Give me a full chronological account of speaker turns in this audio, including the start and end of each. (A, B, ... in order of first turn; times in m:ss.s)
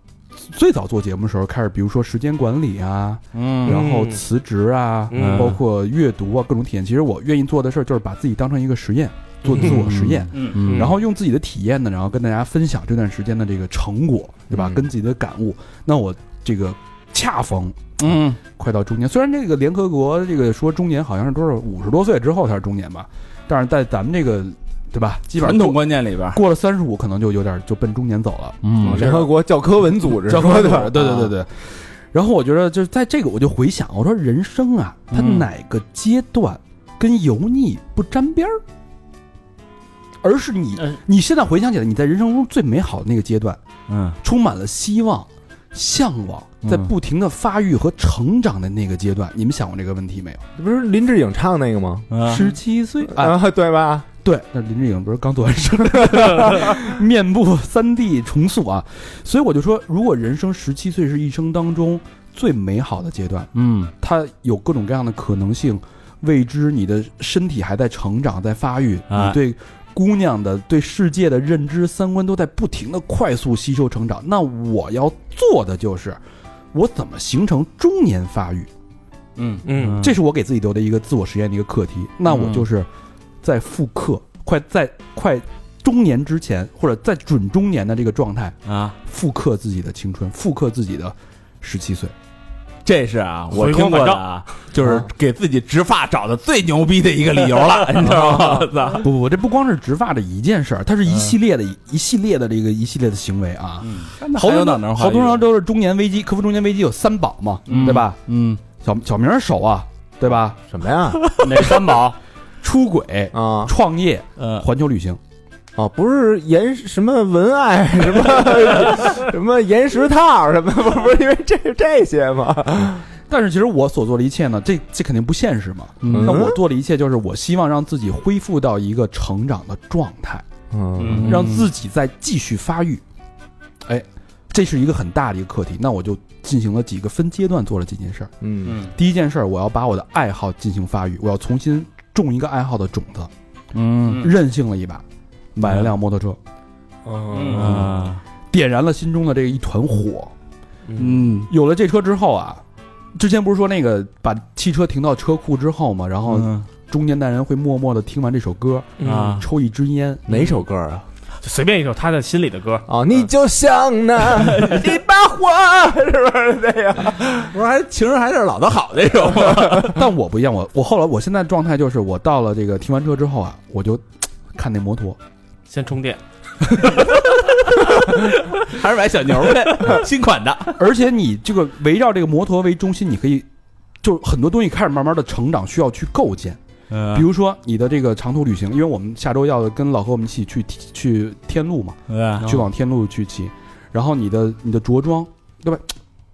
0:00.4-0:29.3 A
0:03.3-0:03.8 B
0:03.6-0:04.2 C
0:05.1-0:05.6 C
0:05.1-0:05.6 B
0:09.5-0:09.8 C
0:09.9-0:10.9 B
0:10.3-0:10.8 D
0:10.6-0:11.0 C
0:18.0-0:18.4 B
0:25.4-0:26.4 B
0:28.6-0:29.3 B
0:28.8-0:31.3 E
0:30.1-0:38.6 A
0:35.1-0:35.5 B
0:40.2-0:43.6 A
0:43.9-0:44.2 B
0:44.2-0:50.4 A
0:46.6-0:46.9 B
0:50.6-0:52.1 E
0:52.1-0:52.4 B
0:52.2-0:53.4 A
0:53.1-0:54.1 E
0:54.2-1:16.2 A
1:03.6-1:03.9 D
1:16.7-1:18.7 A
1:19.4-1:19.9 D
1:19.6-1:20.0 C
1:19.8-1:20.1 B
1:20.0-1:22.9 A
1:22.3-1:22.6 B
1:23.4-1:32.1 A
1:28.7-1:29.0 B
1:32.8-1:39.1 B
1:33.5-1:34.5 C
1:39.0-1:48.2 A
1:43.8-1:44.1 D
1:44.2-1:45.5 B
1:47.7-1:48.6 B
1:47.7-1:48.0 D
1:48.7-1:50.6 A
1:50.7-1:51.3 E
1:51.4-1:52.2 D
1:52.6-1:55.2 A
1:53.3-1:53.7 E
1:54.4-1:54.6 D
1:55.8-2:03.0 E
2:03.3-2:10.4 A
2:06.1-2:06.6 E
2:10.7-2:11.4 E
2:11.0-2:11.5 D
2:11.2-2:13.0 A
2:11.3-2:11.6 B
2:13.8-2:23.3 A
2:18.4-2:18.8 E
2:23.8-2:24.3 B
2:24.0-2:25.0 A
2:25.6-2:26.4 A
2:27.0-2:27.9 C
2:27.3-2:27.8 D
2:27.4-2:28.2 B
2:27.5-2:30.3 A
2:30.9-2:31.2 C
2:31.0-2:32.6 A
2:33.2-2:40.3 A
2:36.3-2:36.6 B
2:39.0-2:39.4 C
2:39.0-2:39.5 B
2:40.3-2:41.0 E
2:41.4-2:43.3 C
2:42.9-2:47.5 E
2:44.4-2:44.9 B
2:47.3-2:50.0 B
2:49.7-2:55.2 A
2:55.7-2:57.2 C
2:58.0-3:00.8 B
3:00.8-3:03.5 A
3:04.0-3:06.6 A
3:06.9-3:07.3 B
3:07.1-3:15.9 A
3:12.1-3:12.6 B